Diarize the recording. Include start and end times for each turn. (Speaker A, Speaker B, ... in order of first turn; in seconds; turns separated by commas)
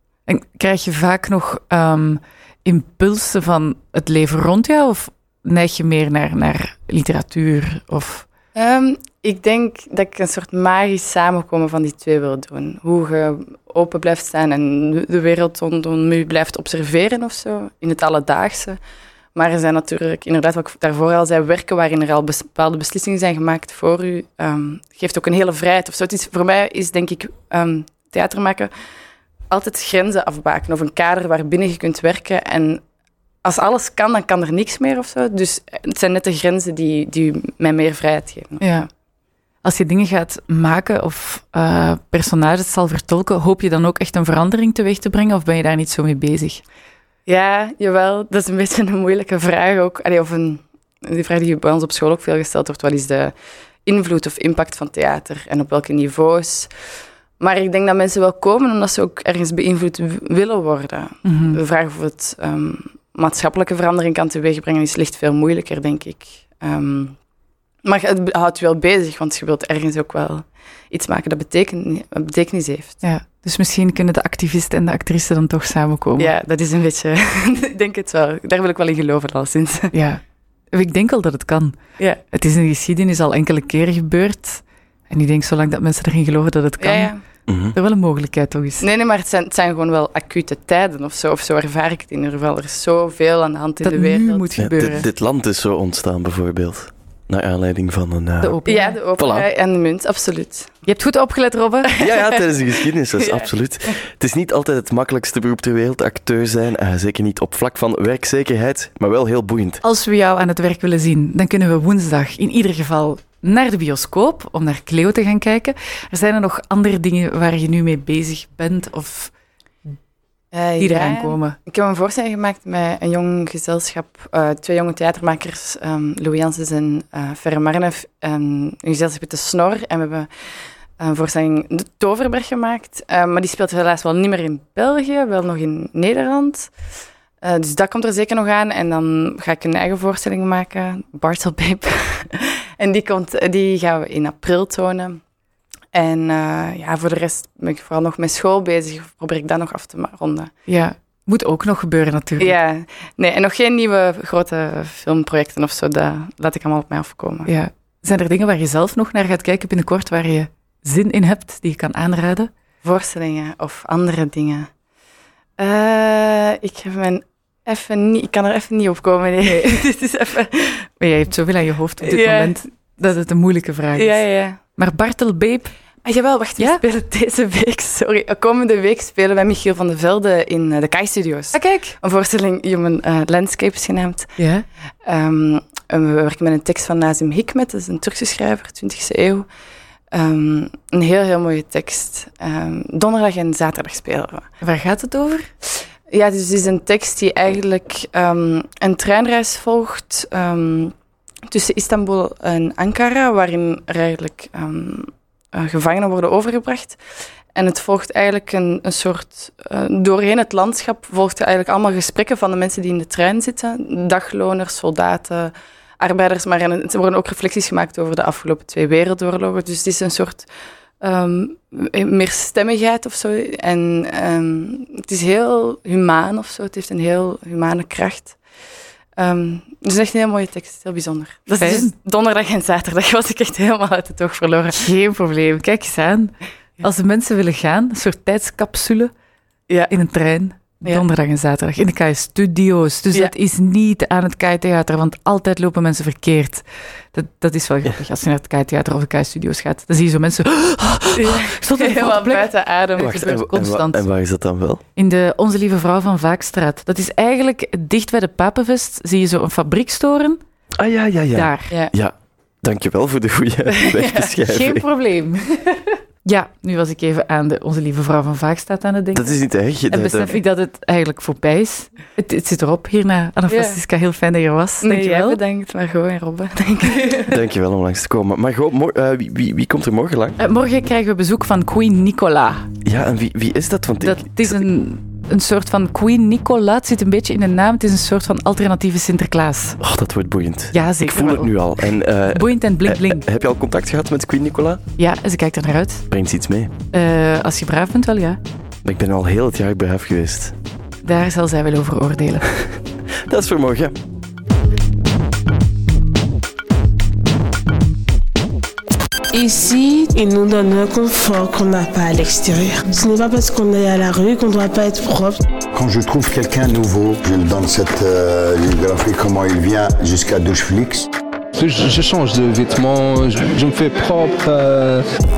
Speaker A: 0.3-8.3, Speaker B: 8.6-18.8, Speaker B: 19.4-28.7, Speaker B: 29.5-32.8, Speaker B: 33.4-38.6, Speaker A: 38.6-38.9, Speaker A: 39.6-46.6, Speaker B: 47.3-53.3, Speaker B: 53.9-56.7, Speaker B: 57.4-67.2, Speaker A: 61.2-61.6, Speaker B: 67.8-73.0, Speaker A: 73.0-76.3, Speaker B: 76.2-79.9, Speaker A: 79.9-80.2, Speaker A: 80.7-87.2, Speaker B: 86.8-87.2, Speaker C: 87.5-87.8, Speaker A: 87.7-88.8, Speaker B: 88.8-94.6, Speaker A: 93.8-95.1, Speaker C: 94.6-98.6, Speaker A: 98.4-99.0, Speaker B: 98.7-100.8, Speaker C: 99.2-99.5, Speaker A: 100.8-101.9, Speaker B: 101.9-103.4, Speaker C: 102.0-109.8, Speaker A: 109.8-119.3, Speaker B: 120.5-130.3, Speaker A: 120.8-121.6, Speaker B: 131.0-136.7, Speaker B: 137.4-145.2, Speaker B: 145.9-150.5, Speaker A: 150.7-152.6, Speaker B: 152.4-157.5, Speaker A: 157.4-162.5, Speaker B: 162.8-164.7, Speaker B: 165.6-170.9, Speaker A: 169.4-170.0, Speaker A: 171.0-175.8, Speaker B: 172.0-172.6, Speaker B: 173.9-174.6, Speaker B: 176.1-184.4, Speaker A: 181.5-182.0, Speaker A: 184.4-184.7, Speaker B: 185.1-189.5, Speaker B: 190.1-194.5, Speaker A: 194.6-195.5, Speaker B: 196.1-200.9, Speaker B: 201.5-207.0, Speaker B: 207.6-220.5, Speaker B: 221.0-228.4, Speaker B: 229.2-234.8, Speaker A: 231.6-231.9, Speaker A: 234.7-239.1, Speaker A: 239.9-254.0, Speaker B: 251.2-253.3, Speaker C: 253.0-254.8, Speaker A: 255.0-260.4, Speaker C: 260.8-264.9, Speaker A: 261.4-261.7, Speaker B: 263.8-264.3, Speaker A: 264.4-269.4, Speaker C: 269.1-270.4, Speaker A: 269.9-275.4, Speaker B: 273.5-273.8, Speaker B: 274.8-277.4, Speaker C: 277.3-280.4, Speaker A: 280.4-282.7, Speaker C: 282.9-284.6, Speaker A: 284.0-289.8, Speaker C: 289.8-294.8, Speaker A: 290.7-291.7, Speaker A: 292.3-293.2, Speaker A: 295.0-296.1, Speaker C: 296.1-296.7, Speaker A: 296.9-298.4, Speaker C: 298.8-300.6, Speaker A: 301.0-302.7, Speaker C: 303.3-303.9, Speaker D: 309.3-315.4, Speaker E: 315.7-321.1, Speaker F: 321.6-325.0